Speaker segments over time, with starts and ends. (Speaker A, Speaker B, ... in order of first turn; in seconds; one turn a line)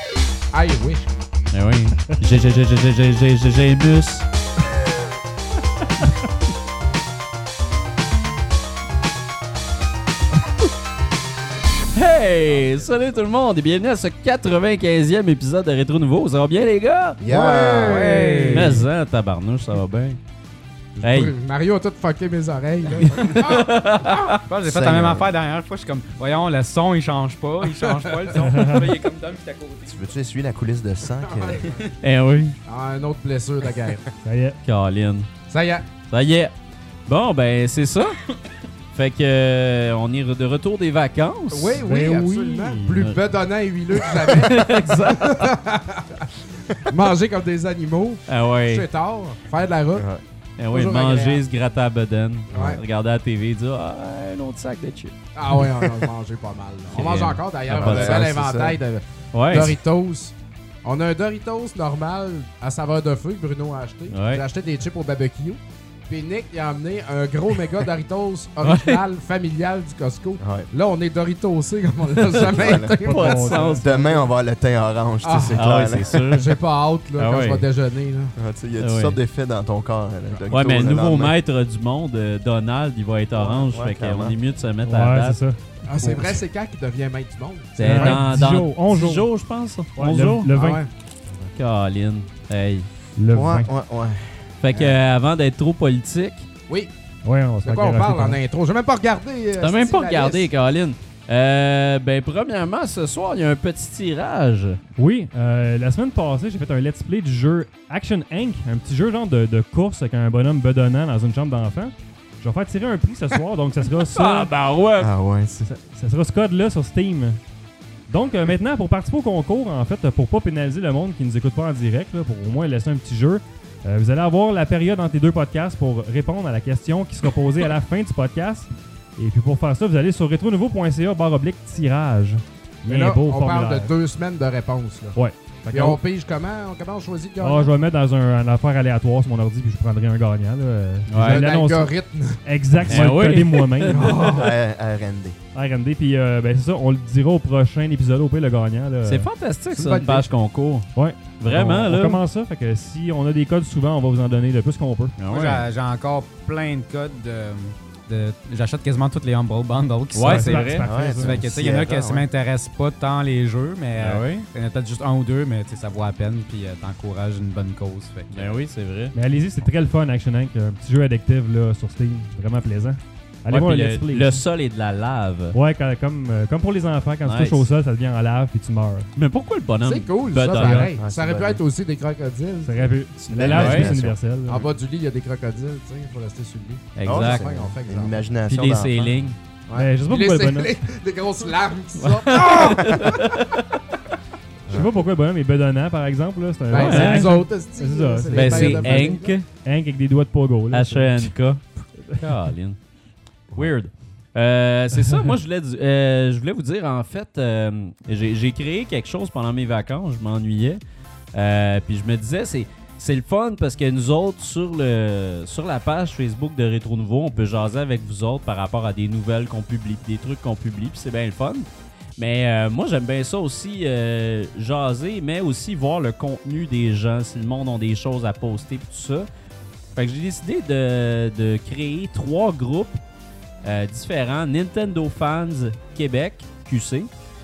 Speaker A: 0.5-1.1
Speaker B: 1.5-4.3
Speaker B: 11.9-17.2
Speaker C: 17.2-18.3
Speaker A: 17.2-18.8
Speaker D: 17.8-18.9
Speaker B: 18.2-20.2
Speaker A: 21.0-24.3
Speaker B: 21.0-21.4
Speaker B: 23.0-24.4
Speaker D: 24.5-30.0
Speaker C: 24.6-25.3
Speaker A: 27.8-28.3
Speaker E: 28.5-29.0
Speaker C: 29.9-31.7
Speaker A: 31.2-31.8
Speaker B: 32.0-32.6
Speaker A: 32.7-34.1
Speaker E: 34.2-34.6
Speaker B: 34.6-35.3
Speaker A: 35.5-35.9
Speaker B: 36.1-36.5
Speaker B: 37.1-38.2
Speaker B: 38.9-41.8
Speaker A: 41.5-50.1
Speaker E: 41.8-43.1
Speaker B: 44.0-45.5
Speaker B: 48.3-48.9
Speaker C: 49.9-50.2
Speaker B: 50.6-55.1
Speaker A: 50.7-51.4
Speaker A: 52.5-52.8
Speaker A: 55.4-73.6
Speaker B: 56.9-58.2
Speaker C: 57.7-58.8
Speaker B: 59.3-59.8
Speaker B: 64.1-64.4
Speaker B: 68.6-69.0
Speaker C: 70.4-70.7
Speaker C: 72.2-73.0
Speaker B: 72.5-73.9
Speaker E: 73.0-74.1
Speaker C: 73.7-76.2
Speaker A: 75.2-78.3
Speaker B: 75.6-76.6
Speaker B: 77.2-77.7
Speaker C: 78.4-81.4
Speaker B: 78.8-79.2
Speaker B: 80.5-85.4
Speaker C: 83.5-84.4
Speaker E: 84.8-85.6
Speaker A: 85.9-88.3
Speaker C: 86.0-86.4
Speaker B: 87.8-90.5
Speaker E: 87.8-89.3
Speaker E: 90.0-90.8
Speaker A: 90.5-90.9
Speaker B: 91.5-92.9
Speaker E: 93.2-93.7
Speaker C: 93.3-94.5
Speaker B: 94.6-96.5
Speaker A: 94.7-95.0
Speaker E: 97.2-98.4
Speaker A: 97.6-100.5
Speaker B: 99.6-104.8
Speaker E: 105.0-114.5
Speaker B: 114.1-115.1
Speaker C: 115.0-115.7
Speaker E: 115.7-117.4
Speaker E: 118.1-133.9
Speaker A: 132.9-135.2
Speaker E: 135.2-136.0
Speaker A: 135.7-137.7
Speaker E: 137.4-144.3
Speaker B: 141.1-141.4
Speaker A: 141.2-142.4
Speaker B: 142.9-144.3
Speaker A: 143.9-144.5
Speaker C: 144.2-145.4
Speaker E: 145.5-149.3
Speaker B: 149.1-152.2
Speaker A: 149.7-150.3
Speaker E: 150.9-155.2
Speaker B: 155.2-155.7
Speaker D: 155.3-168.6
Speaker B: 160.1-160.9
Speaker E: 160.2-161.5
Speaker C: 160.8-162.3
Speaker B: 164.0-164.5
Speaker B: 168.3-169.2
Speaker E: 169.1-174.4
Speaker B: 173.5-175.6
Speaker E: 175.5-179.1
Speaker B: 177.2-177.7
Speaker B: 179.2-180.9
Speaker A: 179.8-182.9
Speaker E: 180.5-181.0
Speaker C: 181.0-181.6
Speaker E: 182.7-184.7
Speaker C: 183.3-184.2
Speaker B: 183.4-184.0
Speaker A: 184.4-188.3
Speaker B: 187.0-187.5
Speaker C: 187.0-189.3
Speaker B: 188.5-189.4
Speaker A: 189.7-193.4
Speaker E: 189.7-190.8
Speaker B: 192.0-193.8
Speaker C: 194.7-194.9
Speaker E: 194.7-201.3
Speaker A: 196.7-199.4
Speaker B: 196.7-197.4
Speaker B: 198.3-199.5
Speaker B: 200.7-202.8
Speaker B: 203.6-210.8
Speaker B: 211.3-221.7
Speaker B: 222.2-229.3
Speaker B: 230.0-233.0
Speaker B: 233.6-237.1